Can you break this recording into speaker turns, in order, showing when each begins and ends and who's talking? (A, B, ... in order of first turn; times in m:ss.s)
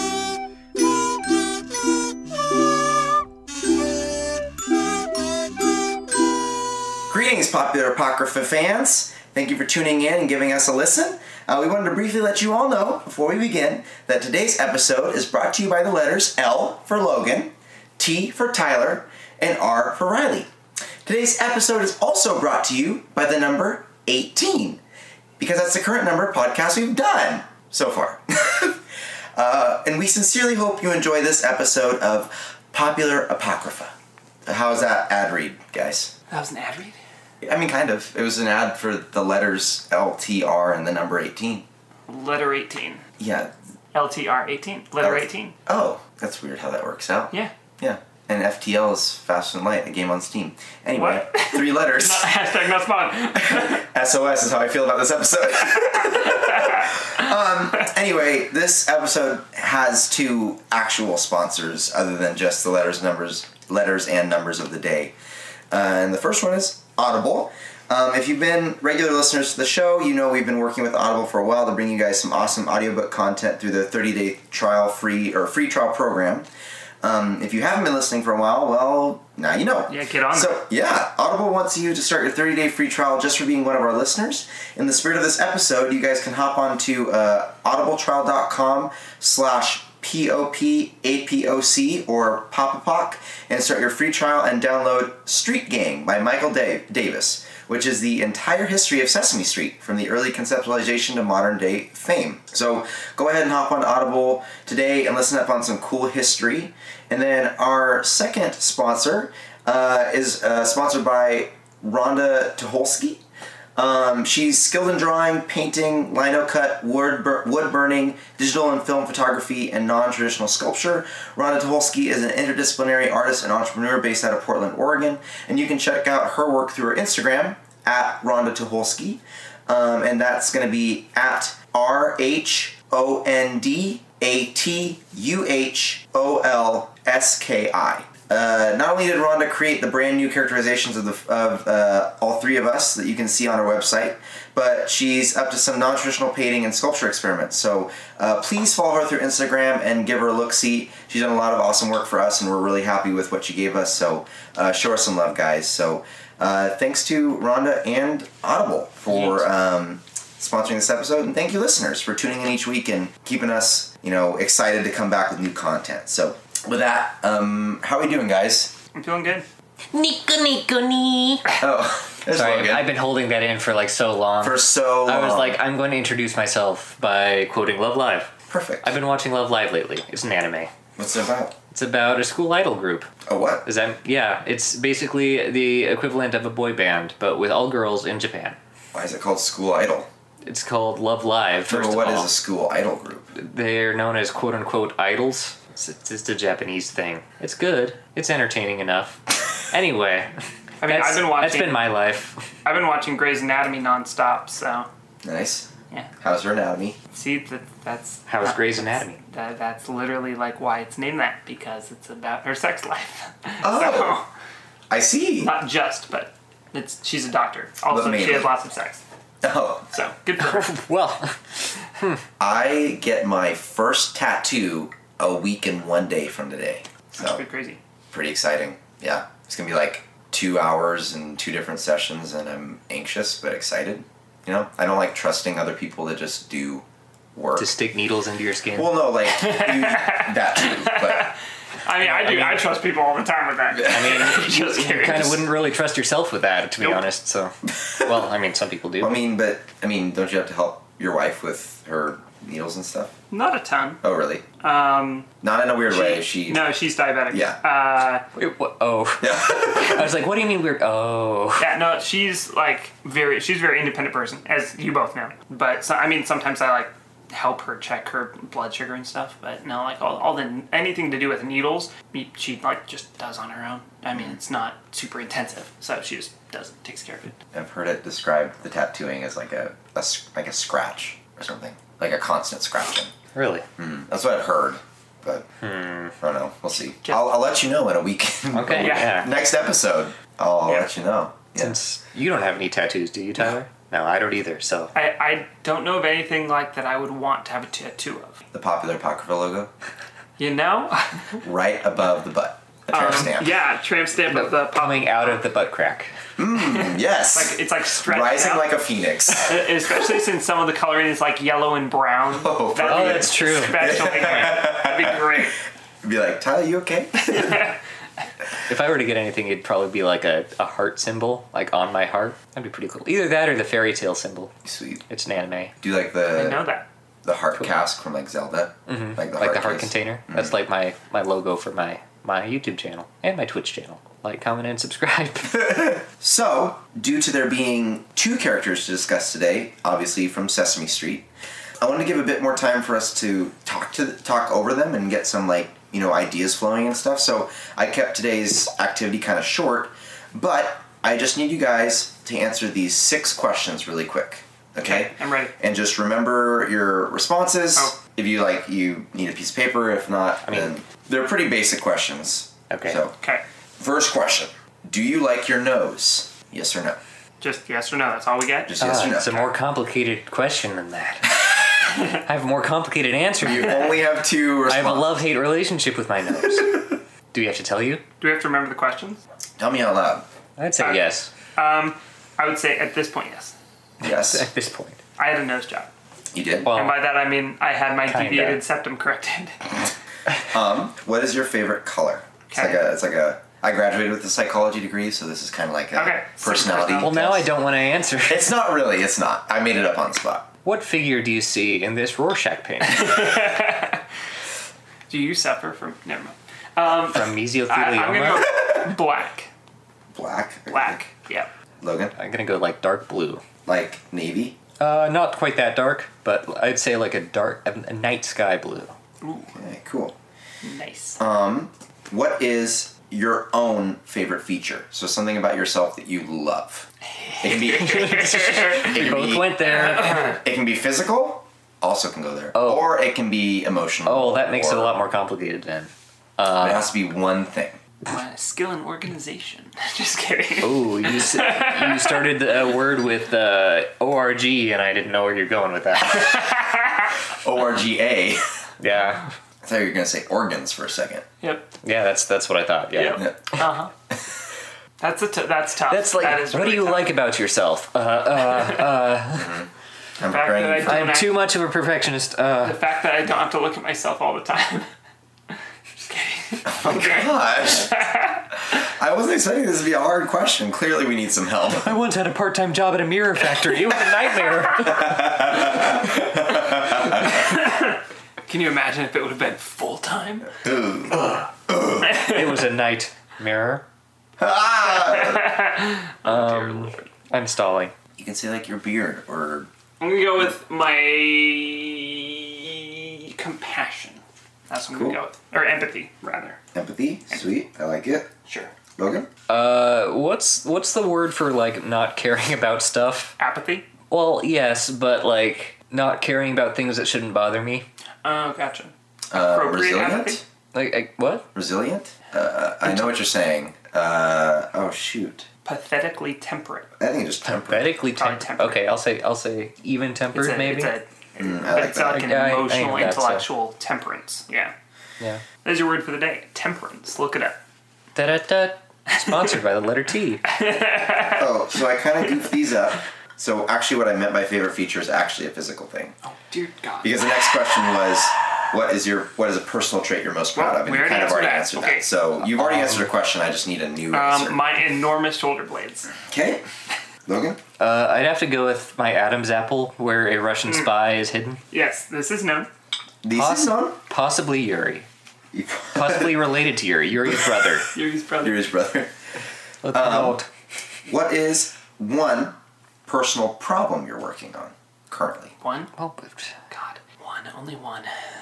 0:07.1-0:20.5 A
0:21.0-0:24.8 A
0:25.4-0:28.8 A
0:29.3-0:33.9 A
0:34.4-0:36.1 A
0:36.3-0:37.0 B
0:37.4-0:41.6 A
0:42.1-0:43.0 B
0:43.2-0:43.5 A
0:43.9-0:45.6 B
0:45.0-0:52.4 A
0:50.9-0:53.8 B
0:53.4-1:05.1 A
0:56.3-0:56.9 B
1:05.7-1:16.5 A
1:17.0-1:53.2 A
1:19.9-1:20.6 B
1:53.8-2:48.7 A
2:39.1-2:39.4 B
2:48.9-2:49.4 B
2:49.9-2:51.5 C
2:51.6-2:52.9 A
2:52.3-2:58.3 C
2:54.4-2:55.6 A
2:58.5-2:58.9 A
2:58.8-3:00.7 C
3:01.0-3:01.5 A
3:01.7-3:03.1 C
3:03.2-3:03.6 A
3:03.6-3:08.6 C
3:08.9-3:10.1 A
3:10.4-3:12.3 C
3:11.7-3:13.3 A
3:13.3-3:20.3 C
3:20.8-3:21.9 B
3:20.8-3:22.4 C
3:22.6-3:24.9 B
3:25.2-3:25.7 A
3:26.2-3:27.0 A
3:27.1-3:34.3 B
3:28.3-3:29.2 C
3:33.6-3:34.2 A
3:34.9-3:35.5 A
3:35.4-3:39.0 B
3:37.9-3:38.5 A
3:39.4-3:39.9 A
3:39.9-3:40.8 B
3:40.4-3:41.4 C
3:42.4-3:47.4 A
3:47.2-3:47.8 B
3:48.1-3:57.7 A
3:57.6-3:59.0 C
3:58.8-4:01.3 A
3:59.3-4:05.4 B
4:02.0-4:02.6 C
4:03.8-4:09.2 C
4:09.0-4:13.1 A
4:13.3-4:14.0 B
4:14.0-4:14.4 A
4:14.6-4:15.3 B
4:15.4-4:16.8 A
4:15.9-4:18.2 B
4:17.3-4:17.6 A
4:18.3-4:21.7 C
4:19.2-4:20.1 A
4:21.6-4:37.3 B
4:37.5-4:43.1 A
4:43.3-4:43.6 C
4:43.8-4:45.5 A
4:45.6-4:46.1 C
4:46.2-4:51.8 A
4:47.0-4:47.3 B
4:48.5-4:49.3 C
4:48.8-4:49.2 B
4:51.6-4:54.9 C
4:54.9-4:58.4 B
4:58.5-4:59.7 A
5:00.4-5:01.4 B
5:01.4-5:03.5 A
5:02.9-5:05.4 B
5:04.3-5:06.1 C
5:06.4-5:09.9 A
5:06.6-5:08.7 B
5:09.3-5:15.6 B
5:12.3-5:15.4 A
5:12.8-5:13.9 C
5:16.0-5:17.7 A
5:17.2-5:17.8 B
5:18.7-5:24.5 C
5:24.6-5:25.0 A
5:25.1-5:25.7 C
5:25.8-5:26.6 A
5:26.3-5:26.8 B
5:27.2-5:30.5 A
5:28.9-5:35.8 C
5:35.5-5:41.3 A
5:41.8-6:03.1 A
5:54.8-5:55.5 B
6:00.4-6:00.7 C
6:02.7-6:03.0 C
6:03.8-6:07.0 A
6:07.4-6:08.8 B
6:08.6-6:09.5 A
6:08.8-6:11.3 C
6:12.2-6:13.9 C
6:13.4-6:15.2 A
6:14.6-6:18.0 C
6:18.2-6:19.2 B
6:19.6-6:20.2 A
6:20.6-6:21.3 C
6:20.8-6:23.5 B
6:24.0-6:24.5 A
6:24.0-6:25.0 C
6:25.2-6:25.9 B
6:26.3-6:26.7 A
6:26.6-6:27.0 C
6:26.7-6:29.8 B
6:28.0-6:28.6 C
6:30.5-6:37.5 A
6:32.5-6:32.8 B
6:35.9-6:37.2 B
6:37.0-6:38.4 C
6:38.2-6:40.5 A
6:40.6-6:43.3 C
6:42.8-6:44.0 B
6:45.1-6:49.5 B
6:46.9-6:48.5 C
6:50.1-6:51.0 A
6:50.7-6:51.5 B
6:51.8-6:52.1 A
6:52.2-6:53.4 C
6:53.6-6:54.6 A
6:54.8-6:58.9 C
6:59.2-6:59.6 B
6:59.5-7:00.1 A
7:00.6-7:01.2 B
7:01.2-7:06.9 A
7:07.2-7:09.0 B
7:07.4-7:14.9 A
7:08.4-7:10.3 C
7:09.6-7:10.4 B
7:12.5-7:12.9 C
7:14.0-7:16.9 C
7:16.6-7:17.8 A
7:18.0-7:22.4 B
7:20.6-7:26.4 C
7:26.1-7:27.1 B
7:27.4-7:28.4 A
7:28.8-7:29.3 C
7:29.6-7:31.2 A
7:31.4-7:31.7 B
7:31.8-7:33.3 C
7:32.9-7:33.9 B
7:33.2-7:33.6 A
7:35.0-7:37.2 B
7:35.9-7:39.6 C
7:39.3-7:39.7 A
7:40.2-7:41.0 A
7:40.2-7:41.4 B
7:40.8-7:42.8 C
7:42.6-7:44.9 B
7:46.0-7:48.4 B
7:46.6-7:48.1 A
7:48.7-7:51.9 A
7:51.8-7:55.4 C
7:54.8-7:57.4 A
7:57.2-8:00.5 B
8:00.5-8:02.1 A
8:01.1-8:01.5 B
8:02.0-8:02.6 B
8:02.2-8:03.8 C
8:04.4-8:05.6 A
8:04.9-8:07.0 B
8:06.2-8:07.9 C
8:08.2-8:09.7 A
8:10.0-8:16.6 B
8:14.9-8:15.2 A
8:16.7-8:18.3 A
8:18.5-8:18.7 B
8:19.0-8:19.3 A
8:19.5-8:23.3 C
8:23.4-8:23.9 B
8:24.1-8:27.8 C
8:28.2-8:30.4 B
8:29.3-8:30.4 A
8:30.7-8:31.5 C
8:31.5-8:35.5 A
8:35.6-8:36.9 B
8:37.0-8:37.9 A
8:37.4-8:41.0 C
8:38.2-8:38.8 B
8:40.3-8:44.7 B
8:41.4-8:42.3 A
8:42.0-8:43.5 C
8:45.6-8:47.6 B
8:48.1-8:50.4 C
8:49.1-8:49.6 B
8:50.4-8:51.5 B
8:51.3-8:56.2 A
8:56.2-8:57.7 B
8:57.0-9:04.6 A
9:00.5-9:02.1 B
9:02.4-9:03.1 C
9:04.1-9:06.1 B
9:06.2-9:06.6 A
9:07.2-9:07.6 A
9:07.8-9:11.6 C
9:11.7-9:12.7 B
9:13.2-9:14.0 A
9:13.3-9:15.1 C
9:15.5-9:16.3 A
9:15.9-9:17.9 C
9:17.9-9:18.7 B
9:18.4-9:19.1 A
9:19.8-9:20.5 C
9:19.9-9:20.4 A
9:21.1-9:22.6 A
9:23.1-9:25.5 A
9:25.6-9:25.9 B
9:25.9-9:26.5 C
9:26.7-9:28.1 B